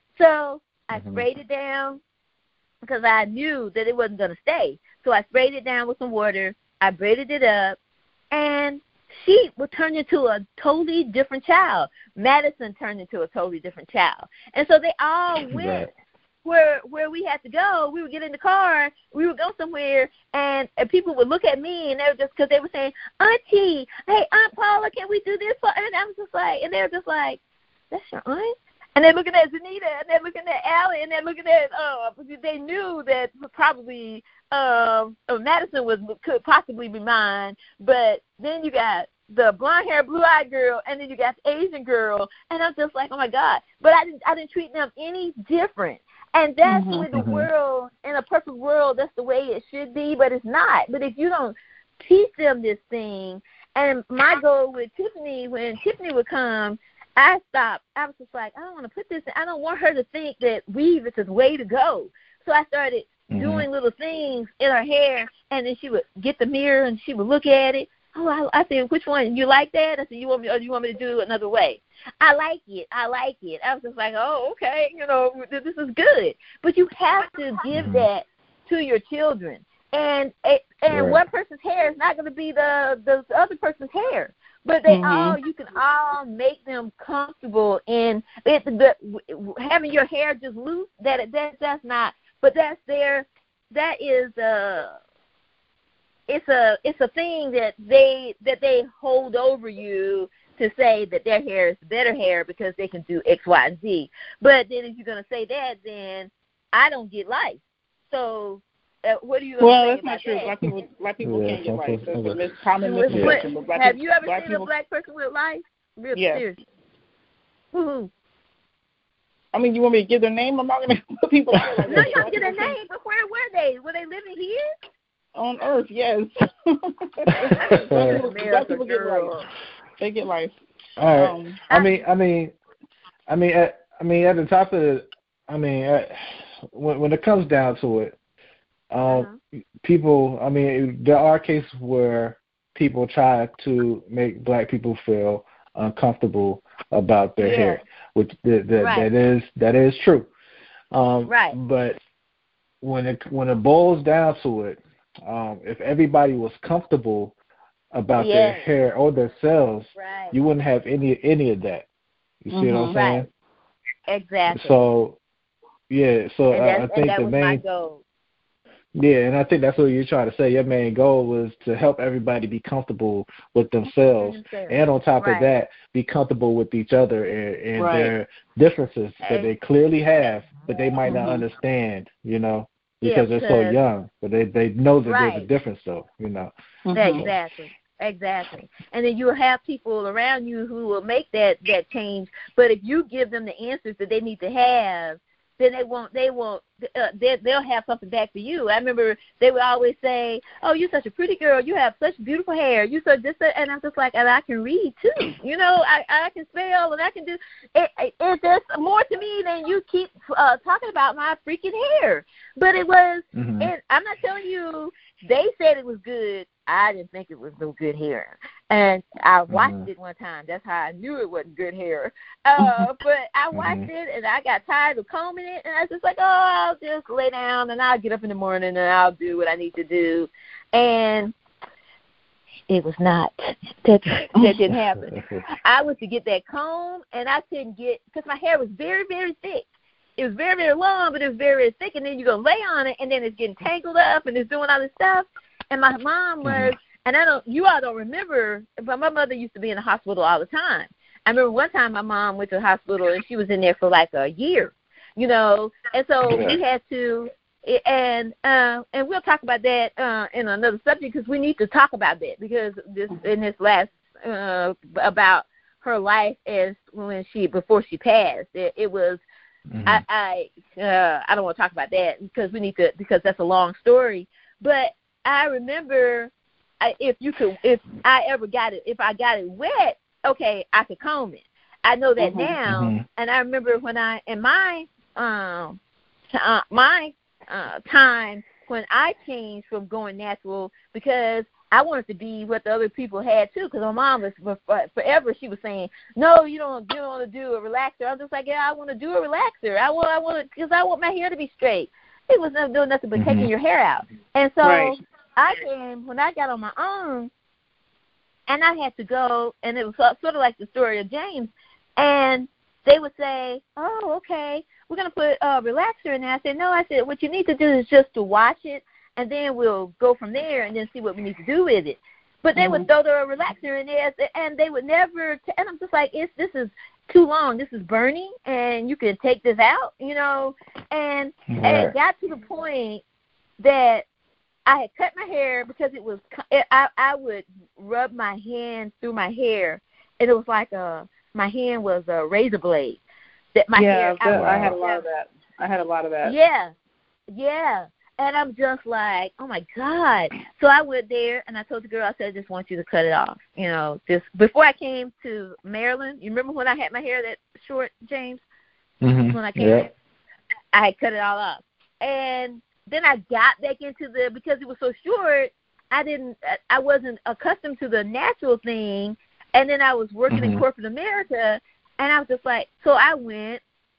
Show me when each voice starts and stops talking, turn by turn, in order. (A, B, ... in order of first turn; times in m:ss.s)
0:00.2-0:02.0 A
0:00.9-0:01.2 B
0:02.8-0:07.8 A
0:08.3-0:15.9 A
0:15.5-0:15.9 B
0:16.4-0:27.4 A
0:27.9-1:35.0 A
0:46.6-0:47.0 C
0:47.1-0:47.5 B
1:03.3-1:03.7 B
1:17.7-1:18.1 B
1:20.9-1:21.2 B
1:24.9-1:25.4 C
1:36.3-1:50.5 A
1:49.6-1:54.7 C
1:51.2-1:52.5 B
1:52.8-1:56.6 A
1:53.1-1:53.4 B
1:56.2-1:56.5 C
1:57.7-1:58.1 A
1:59.5-2:02.8 C
2:01.6-2:02.1 B
2:01.9-2:04.7 A
2:05.4-2:09.5 C
2:07.4-2:09.4 A
2:07.6-2:08.2 B
2:10.0-2:10.5 C
2:11.0-2:12.5 B
2:11.2-2:11.6 C
2:11.7-2:12.0 A
2:13.3-2:18.2 B
2:18.9-2:30.3 B
2:19.1-2:19.4 A
2:27.4-2:27.8 A
2:28.8-2:29.1 A
2:30.9-2:32.0 B
2:31.3-2:31.6 A
2:32.8-2:37.3 B
2:37.9-2:41.9 B
2:38.2-2:38.7 A
2:40.0-2:40.4 A
2:42.4-2:43.3 B
2:42.5-2:43.0 C
2:42.9-2:43.3 A
2:44.1-2:44.8 A
2:44.5-2:45.2 B
2:45.9-2:47.6 B
2:46.5-2:48.0 A
2:49.0-3:07.4 B
2:54.2-2:55.5 A
2:57.8-2:58.1 C
2:59.2-2:59.5 A
3:01.0-3:01.4 C
3:03.0-3:03.8 A
3:05.1-3:05.5 A
3:06.9-3:07.3 C
3:07.0-3:51.4 A
3:33.3-3:33.7 B
3:39.5-3:39.9 B
3:43.5-3:43.9 B
3:52.7-3:59.7 A
3:55.1-3:55.4 B
4:00.2-4:29.2 A
4:06.4-4:06.7 B
4:16.3-4:16.6 B
4:29.7-4:30.0 B
4:29.8-4:45.8 A
4:42.2-4:42.6 C
4:42.7-4:43.0 B
4:46.3-5:07.3 A
5:03.2-5:03.5 B
5:04.6-5:05.0 C
5:08.5-5:33.0 A
5:22.6-5:22.9 C
5:31.5-5:31.9 B
5:33.6-5:34.0 A
5:34.7-5:43.0 A
5:43.6-5:45.0 A
5:43.8-5:46.4 C
5:44.3-5:44.7 B
5:46.2-5:46.7 A
5:47.3-5:58.4 A
5:59.0-5:59.9 B
5:59.3-5:59.9 A
6:00.7-6:13.6 A
6:10.3-6:10.6 B